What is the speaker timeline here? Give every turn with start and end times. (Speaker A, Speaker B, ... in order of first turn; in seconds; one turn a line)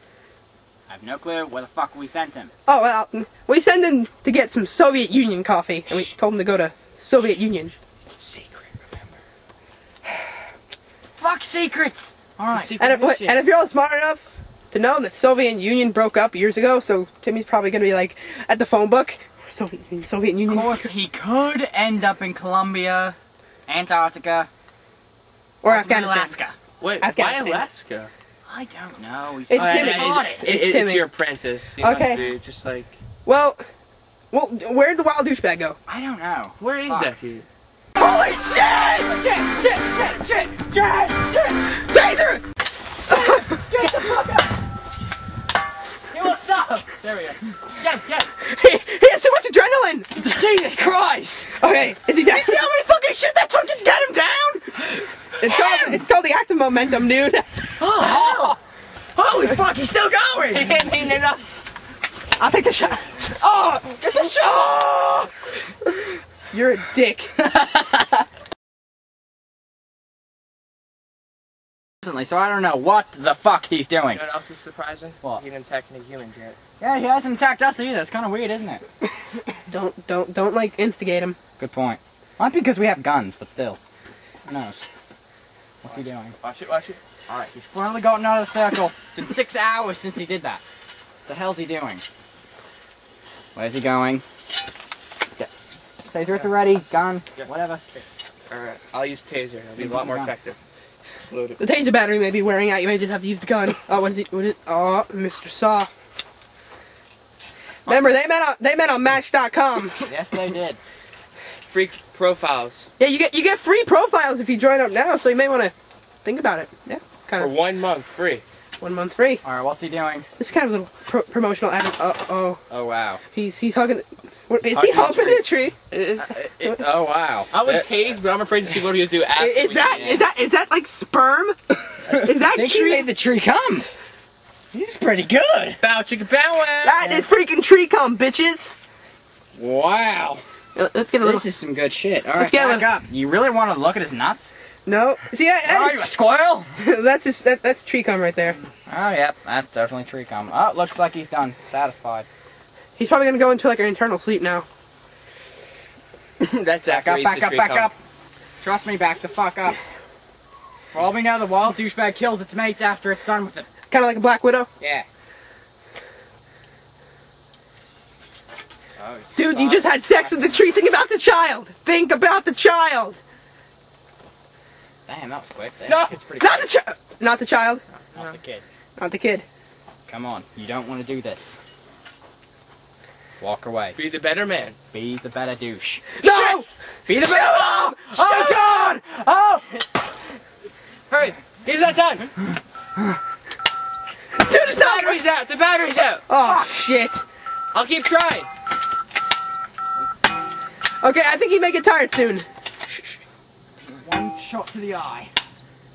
Speaker A: 0.9-2.5
Speaker B: 2.7-7.7
Speaker C: 8.2-9.1
Speaker A: 11.2-12.8
Speaker C: 12.5-13.4
Speaker B: 12.8-20.9
Speaker A: 20.5-23.2
Speaker A: 23.7-24.5
Speaker B: 25.6-26.4
Speaker A: 25.6-26.6
Speaker C: 26.8-28.1
Speaker B: 27.0-27.7
Speaker A: 28.5-30.5
Speaker B: 29.5-31.1
Speaker C: 29.6-33.0
Speaker B: 31.8-32.2
Speaker A: 32.1-32.4
Speaker B: 33.2-33.6
Speaker B: 34.3-35.8
Speaker A: 35.9-37.1
Speaker C: 36.6-37.5
Speaker A: 38.0-41.8
Speaker B: 41.8-42.4
Speaker A: 43.1-44.5
Speaker A: 46.2-47.0
Speaker C: 46.9-48.3
Speaker B: 48.4-50.1
Speaker A: 50.2-51.5
Speaker B: 51.6-52.6
Speaker A: 52.3-56.0
Speaker B: 55.4-57.5
Speaker A: 57.8-58.6
Speaker C: 58.0-58.5
Speaker A: 59.2-60.8
Speaker C: 60.5-61.7
Speaker B: 62.4-64.8
Speaker A: 64.0-65.3
Speaker B: 66.5-67.3
Speaker A: 67.4-68.0
Speaker A: 72.0-74.2
Speaker C: 74.1-76.6
Speaker A: 76.8-78.8
Speaker B: 79.7-81.4
Speaker A: 81.6-83.8
Speaker A: 84.5-84.8
Speaker A: 85.8-86.3
Speaker C: 86.4-87.0
Speaker A: 87.3-90.6
Speaker A: 91.3-92.0
Speaker A: 93.5-94.2
Speaker A: 96.1-97.8
Speaker C: 98.5-100.6
Speaker A: 99.8-100.3
Speaker C: 101.3-101.6
Speaker B: 101.6-105.9
Speaker B: 107.9-110.0
Speaker A: 110.0-110.8
Speaker C: 111.7-112.9
Speaker B: 113.0-115.7
Speaker B: 116.2-117.5
Speaker C: 117.4-118.4
Speaker B: 118.8-119.4
Speaker A: 119.4-120.3
Speaker B: 120.4-122.6
Speaker A: 122.7-123.2
Speaker B: 123.3-125.8
Speaker A: 124.7-125.4
Speaker C: 125.9-126.7
Speaker A: 126.2-127.9
Speaker C: 127.5-130.2
Speaker B: 129.4-133.1
Speaker A: 129.8-130.2
Speaker A: 132.1-133.9
Speaker A: 134.7-135.8
Speaker C: 135.8-137.0
Speaker B: 136.8-138.7
Speaker A: 139.6-140.4
Speaker B: 140.8-141.5
Speaker A: 141.2-144.5
Speaker B: 142.3-142.9
Speaker B: 144.9-146.1
Speaker A: 145.7-146.7
Speaker B: 146.8-148.6
Speaker A: 148.9-152.3
Speaker B: 153.0-154.7
Speaker C: 156.4-157.9
Speaker A: 156.9-158.0
Speaker A: 158.6-159.8
Speaker A: 160.9-163.7
Speaker B: 163.9-164.7
Speaker A: 164.8-165.1
Speaker A: 169.0-170.6
Speaker B: 169.3-173.2
Speaker A: 175.1-176.1
Speaker C: 175.9-176.7
Speaker B: 176.4-177.8
Speaker A: 178.1-178.6
Speaker B: 179.0-179.4
Speaker A: 180.1-181.5
Speaker A: 183.4-184.0
Speaker C: 183.9-184.8
Speaker A: 184.9-186.5
Speaker B: 186.2-188.9
Speaker A: 187.1-189.7
Speaker C: 191.1-192.3
Speaker B: 194.5-195.2
Speaker C: 194.6-196.3
Speaker B: 196.3-197.2
Speaker A: 196.4-196.7
Speaker C: 197.7-198.5
Speaker B: 201.0-203.2
Speaker A: 203.9-205.3